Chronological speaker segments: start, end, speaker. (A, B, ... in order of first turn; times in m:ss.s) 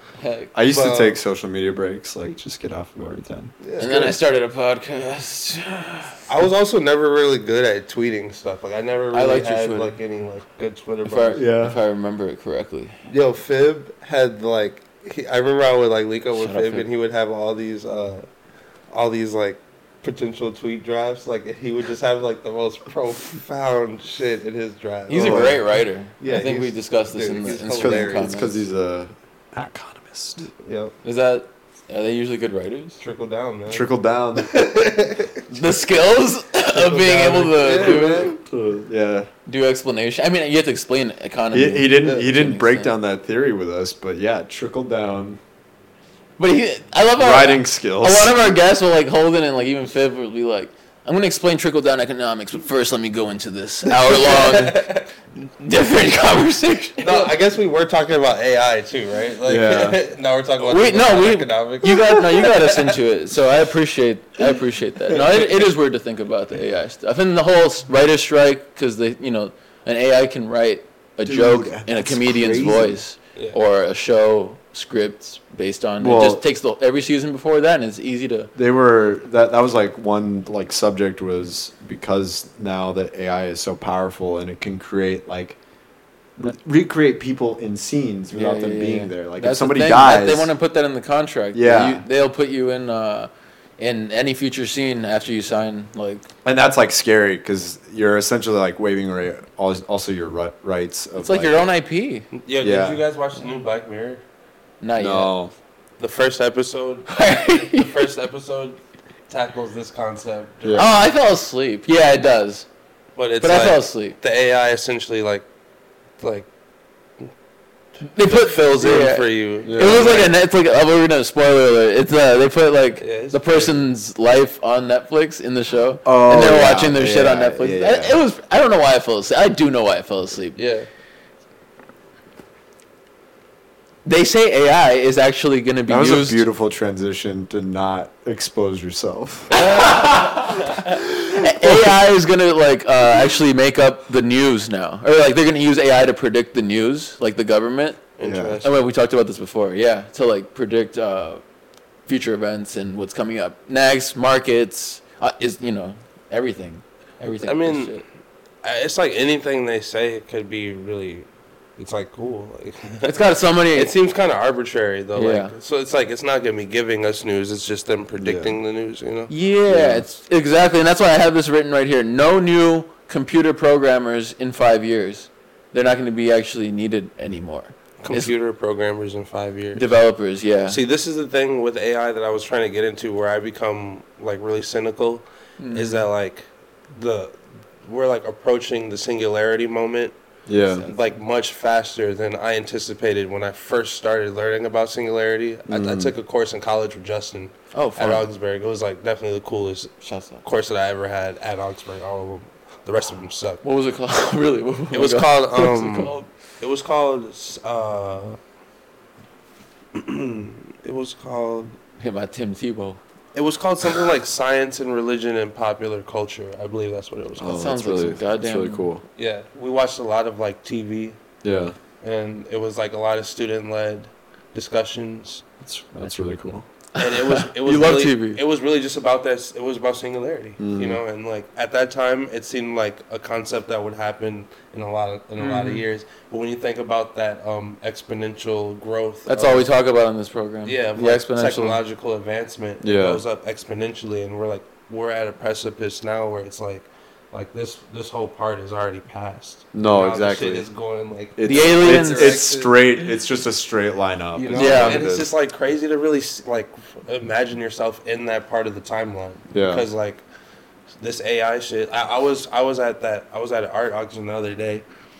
0:00.2-0:00.5 A
0:00.5-0:03.9 B
0:00.6-0:01.2 C
0:03.6-0:04.2 C
0:03.8-0:06.2 A
0:06.3-0:11.4 C
0:09.1-0:10.0 A
0:11.0-0:13.0 A
0:11.3-0:11.8 B
0:13.1-0:18.3 C
0:16.3-0:16.8 A
0:18.9-0:28.4 C
0:25.1-0:28.6 A
0:25.1-0:25.6 B
0:27.8-0:30.5 B
0:30.6-0:30.9 C
0:31.0-0:33.0 A
0:33.0-0:33.9 C
0:33.7-0:34.6 B
0:34.4-0:35.4 C
0:35.5-0:38.3 A
0:36.7-0:38.3 C
0:37.6-0:39.3 B
0:39.5-0:42.9 A
0:41.5-0:45.4 B
0:46.4-0:55.0 A
0:47.2-0:48.3 B
0:53.8-0:55.1 C
0:55.6-0:57.3 A
0:57.0-1:02.5 C
0:59.4-1:00.0 B
1:00.6-1:18.5 A
1:01.9-1:02.5 B
1:11.2-1:13.0 B
1:16.0-1:16.4 B
1:18.5-1:25.6 B
1:26.4-1:30.5 B
1:28.3-1:36.3 A
1:31.5-1:32.0 B
1:36.4-1:41.7 B
1:41.2-1:42.3 A
1:42.3-1:44.2 C
1:42.6-1:43.0 B
1:44.8-1:45.3 A
1:45.0-1:45.5 B
1:46.0-1:47.1 C
1:47.1-1:47.9 A
1:47.7-1:48.8 C
1:49.3-1:50.9 C
1:50.6-1:50.9 B
1:50.7-1:52.7 A
1:53.2-1:55.5 C
1:53.4-1:54.2 A
1:56.2-1:56.5 C
1:58.1-2:10.6 A
1:58.2-2:00.3 C
1:59.6-2:00.2 B
2:03.0-2:03.8 C
2:06.0-2:08.2 B
2:10.6-2:10.9 C
2:14.0-2:16.4 A
2:15.9-2:19.6 B
2:19.5-2:28.0 A
2:21.6-2:21.9 B
2:28.2-2:28.8 C
2:28.2-2:28.6 B
2:28.6-2:31.4 A
2:32.1-2:38.0 A
2:37.4-2:38.0 C
2:38.6-2:50.0 C
2:43.0-2:43.9 A
2:45.1-2:45.5 A
2:48.2-2:48.6 B
2:49.3-2:58.3 A
2:58.0-2:59.9 C
2:59.8-3:00.8 A
3:00.7-3:10.2 C
3:05.6-3:06.0 A
3:10.5-3:10.8 B
3:10.7-3:11.1 A
3:10.8-3:23.6 C
3:15.6-3:16.1 B
3:17.7-3:18.2 A
3:20.0-3:20.4 A
3:23.6-3:26.2 A
3:24.9-3:28.4 C
3:30.0-3:31.7 C
3:32.0-3:33.0 A
3:33.3-3:37.6 C
3:37.4-3:39.0 B
3:37.4-3:38.9 A
3:39.2-3:41.2 C
3:41.4-3:41.8 B
3:42.0-3:45.4 C
3:45.6-3:46.7 B
3:47.0-3:48.4 A
3:47.0-3:59.7 C
3:50.6-3:51.0 B
3:55.4-3:55.8 A
3:59.3-4:01.8 A
4:00.6-4:13.1 C
4:02.8-4:03.2 B
4:09.7-4:10.7 B
4:11.4-4:15.3 B
4:11.4-4:12.4 A
4:14.4-4:20.2 C
4:14.4-4:15.0 A
4:19.5-4:19.8 B
4:21.0-4:24.8 C